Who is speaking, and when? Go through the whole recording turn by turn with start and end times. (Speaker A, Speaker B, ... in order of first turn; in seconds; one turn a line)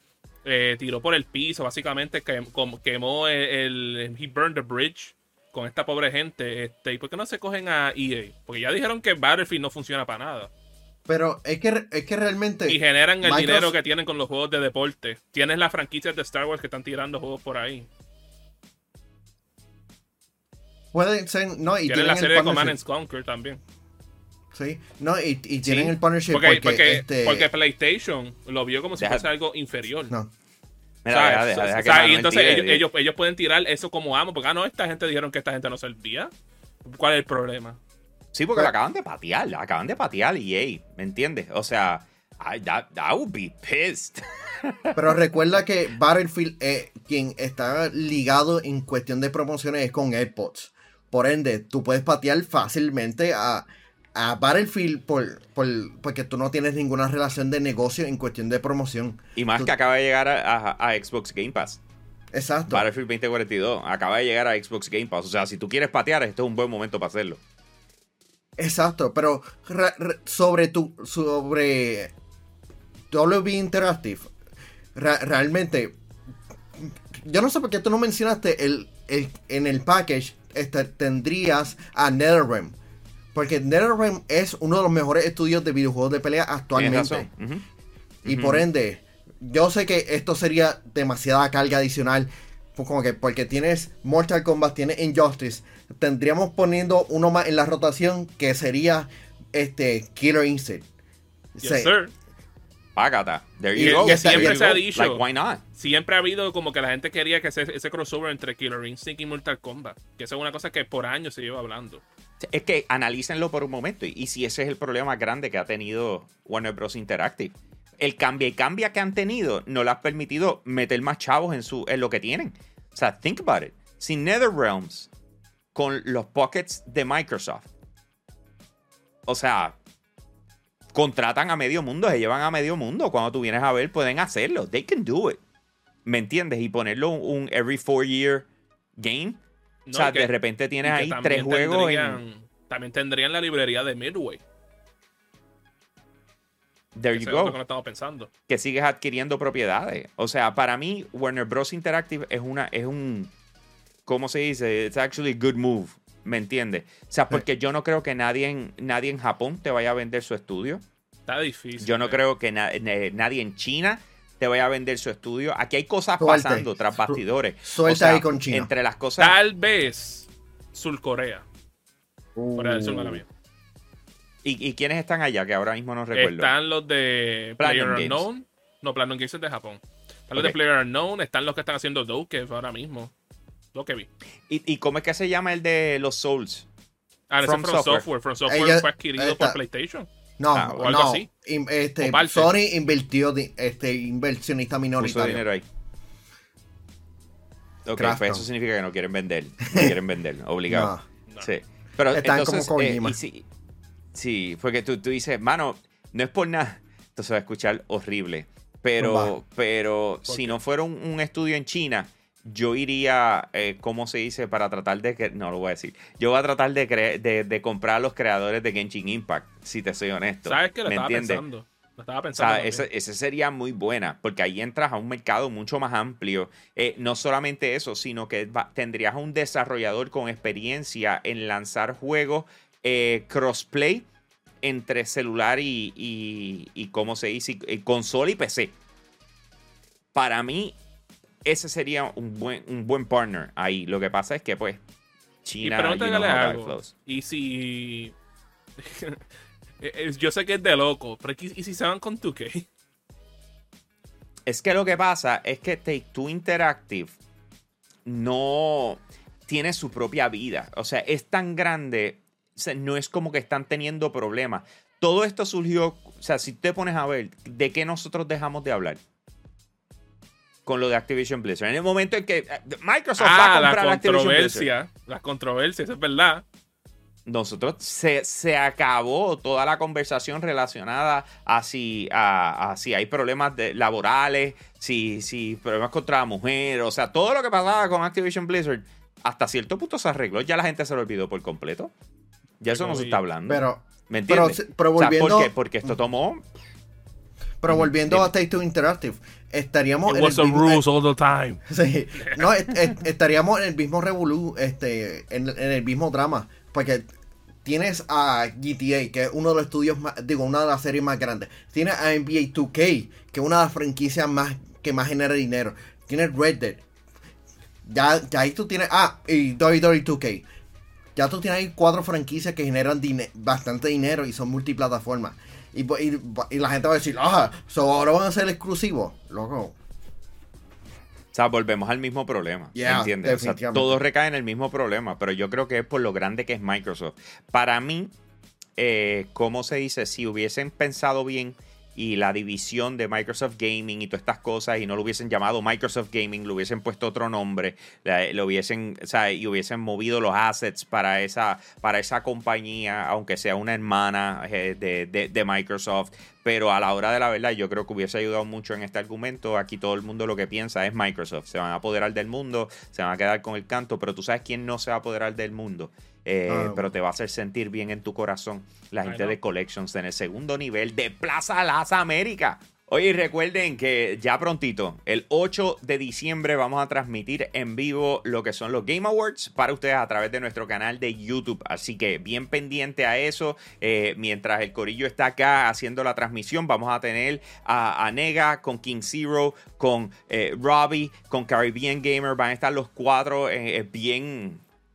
Speaker A: 0.5-10.5
Speaker B: 11.1-13.8
Speaker A: 12.7-17.9
Speaker B: 20.9-22.8
Speaker A: 21.9-23.6
Speaker B: 24.5-27.5
Speaker A: 25.6-30.1
Speaker C: 29.0-29.3
Speaker C: 31.1-32.9
Speaker A: 31.1-36.3
Speaker A: 36.9-37.8
Speaker C: 38.3-45.1
Speaker B: 45.0-59.7
Speaker C: 59.4-61.8
Speaker B: 62.3-62.9
Speaker C: 62.7-67.4
Speaker B: 68.6-72.1
Speaker B: 73.1-74.3
Speaker B: 75.0-76.0
Speaker B: 76.8-82.8
Speaker B: 83.3-87.3
Speaker C: 86.8-87.7
Speaker C: 88.2-88.7
Speaker B: 88.3-100.8
Speaker B: 101.6-101.9
Speaker A: 101.6-102.1
Speaker C: 103.0-105.6
Speaker B: 103.7-104.8
Speaker A: 103.8-105.2
Speaker A: 105.8-112.0
Speaker C: 112.4-125.1
Speaker C: 125.8-127.7
Speaker C: 129.3-129.8
Speaker C: 130.9-135.4
Speaker C: 136.1-139.4
Speaker A: 139.9-140.3
Speaker C: 139.9-142.2
Speaker A: 140.8-144.4
Speaker C: 146.9-147.6
Speaker A: 147.1-148.3
Speaker C: 148.5-153.3
Speaker C: 154.1-160.8
Speaker A: 161.3-162.2
Speaker C: 161.8-169.4
Speaker B: 166.2-168.7
Speaker A: 169.2-171.5
Speaker B: 172.4-173.2
Speaker A: 172.6-173.3
Speaker C: 174.4-176.5
Speaker A: 176.1-183.1
Speaker C: 177.6-178.3
Speaker A: 183.7-184.1
Speaker C: 184.5-186.7
Speaker A: 187.3-190.1
Speaker C: 187.4-188.1
Speaker B: 188.5-189.6
Speaker B: 190.4-195.4
Speaker C: 190.5-190.9
Speaker A: 190.7-191.3
Speaker A: 192.0-192.5
Speaker C: 195.0-195.7
Speaker C: 197.9-203.4
Speaker B: 198.0-198.4
Speaker B: 200.7-201.0
Speaker B: 202.1-203.2
Speaker C: 204.1-221.4
Speaker B: 209.0-209.3
Speaker A: 210.3-210.6
Speaker A: 220.4-222.8
Speaker C: 222.3-234.1
Speaker C: 234.6-238.7
Speaker C: 240.1-240.8
Speaker C: 241.4-244.8
Speaker C: 245.4-246.9
Speaker A: 245.6-248.1
Speaker A: 248.8-249.2
Speaker A: 249.8-252.7
Speaker C: 254.5-257.2
Speaker C: 258.1-269.0
Speaker C: 270.7-274.7
Speaker A: 273.2-276.4
Speaker C: 277.3-291.9
Speaker C: 292.6-296.5
Speaker A: 292.7-293.2
Speaker B: 293.5-295.9
Speaker B: 297.6-300.8
Speaker C: 297.7-298.3
Speaker A: 300.1-301.6
Speaker B: 301.7-307.1
Speaker A: 302.2-302.5
Speaker B: 307.6-316.8
Speaker B: 317.8-320.4
Speaker B: 321.2-329.8
Speaker C: 331.3-338.1
Speaker B: 332.8-334.0
Speaker C: 338.8-394.6
Speaker B: 366.5-366.9
Speaker A: 369.1-369.4